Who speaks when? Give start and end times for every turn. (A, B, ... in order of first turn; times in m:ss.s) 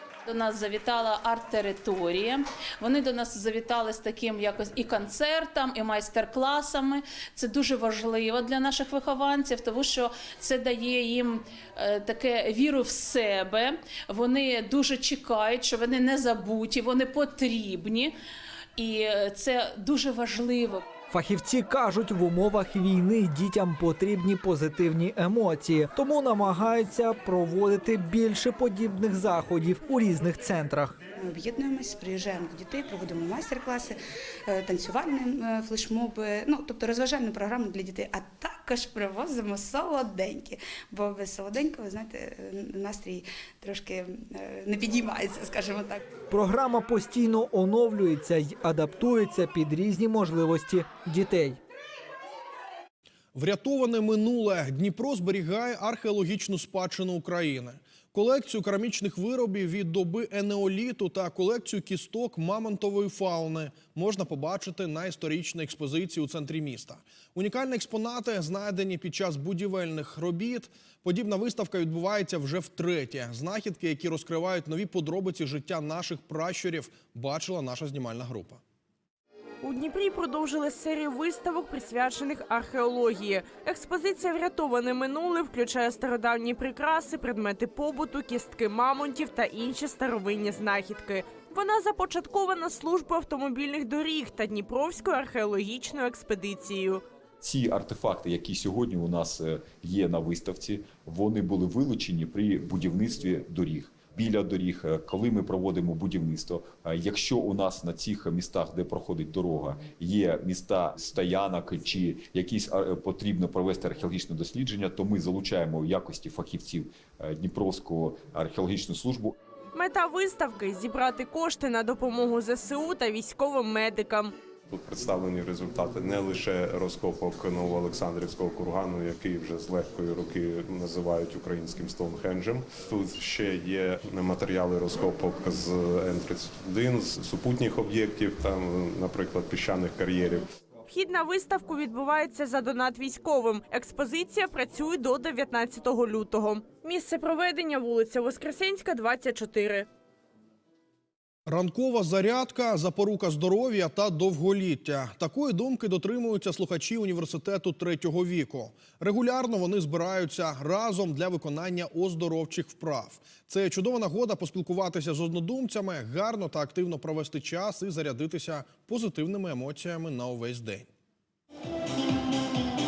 0:00.3-0:18.1 A
0:18.8-0:20.8 A
0:21.1-0:31.0 B
0:31.2-0:46.0 C
0:46.3-0:51.6 B
0:53.3-1:18.6 D
1:19.6-1:37.0 E
1:37.4-1:59.4 F
1:59.7-2:04.3 E
2:04.7-2:20.4 G
2:20.9-2:29.9 E
2:31.5-2:50.9 D